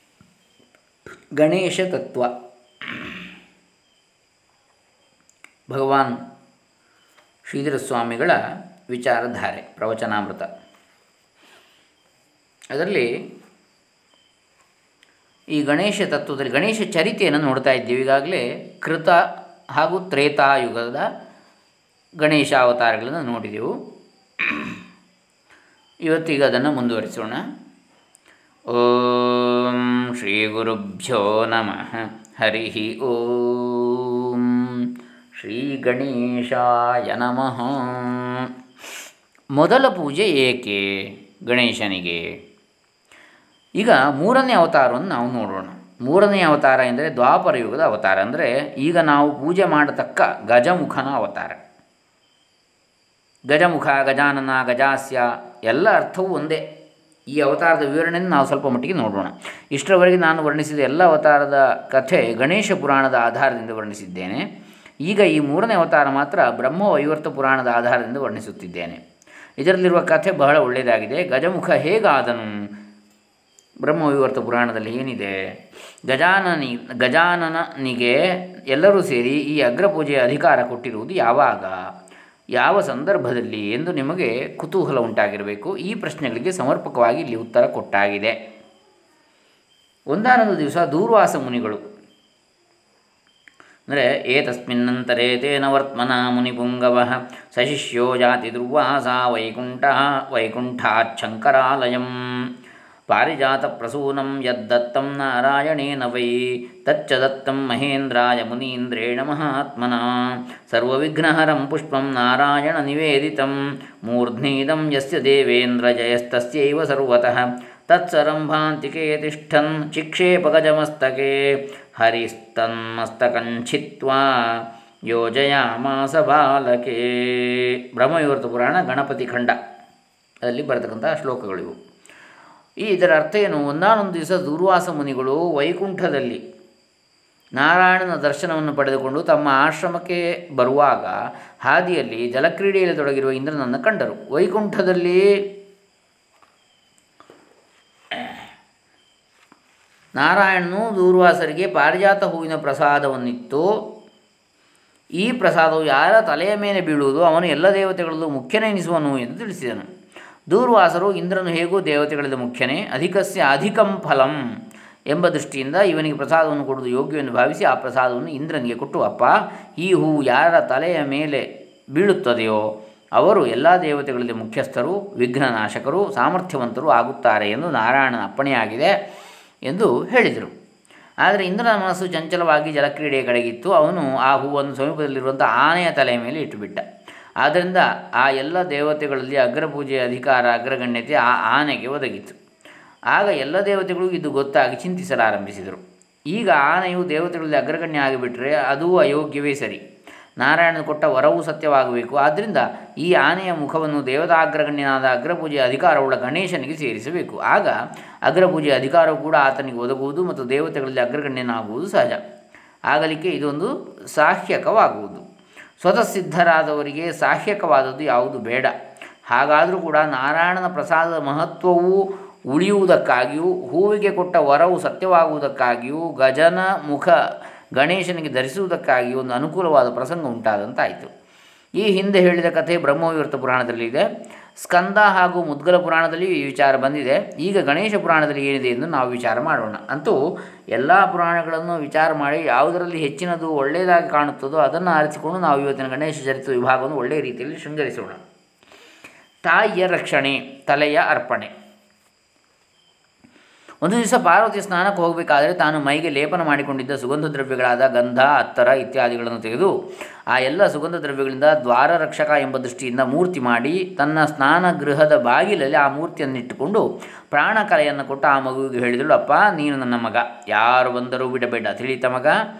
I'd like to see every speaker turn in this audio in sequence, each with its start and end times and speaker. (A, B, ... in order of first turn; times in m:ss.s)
0:01.4-0:02.3 A
0:02.8-0:03.3 A
0:05.7-0:06.1 A
0:07.5-0:08.4 A
0:08.9-0:10.5 A
0:12.7-0:13.1 A
0:15.5-0:19.2 A
0:19.8-0:21.1 A
0:22.2-0:23.7 A
0:24.4-0:24.8 A
0:26.0-0:27.4 A
0:28.7-0:38.5 A
0:39.6-0:42.2 A
0:43.8-0:51.6 A
0:53.5-0:56.6 A
0:57.3-1:04.5 A
1:05.0-1:09.0 A
1:09.6-1:12.7 A
1:13.8-1:15.3 A
1:16.1-1:21.8 A
1:22.6-1:28.4 A
1:30.1-1:31.8 A
1:33.9-1:42.4 A
1:43.1-2:09.6 A
2:10.4-2:11.8 A
2:12.8-2:16.4 A
2:17.6-2:25.3 A
2:30.2-2:33.8 A
2:35.2-2:39.9 A
2:40.5-2:44.4 A
2:45.1-2:52.6 A
2:53.2-2:58.9 A
2:59.7-3:00.5 A
3:01.2-3:06.8 A
3:07.4-3:12.4 A
3:13.1-3:15.8 A
3:16.3-3:19.8 A
3:20.4-3:32.2 A
3:32.9-3:35.2 A
3:35.8-3:38.7 A
3:39.3-3:47.2 A
3:47.8-3:51.1 A
3:51.8-3:54.0 A
3:54.6-4:00.2 A
4:00.7-4:08.2 A
4:09.4-4:11.5 A
4:13.8-4:19.7 A
4:20.3-4:32.4 A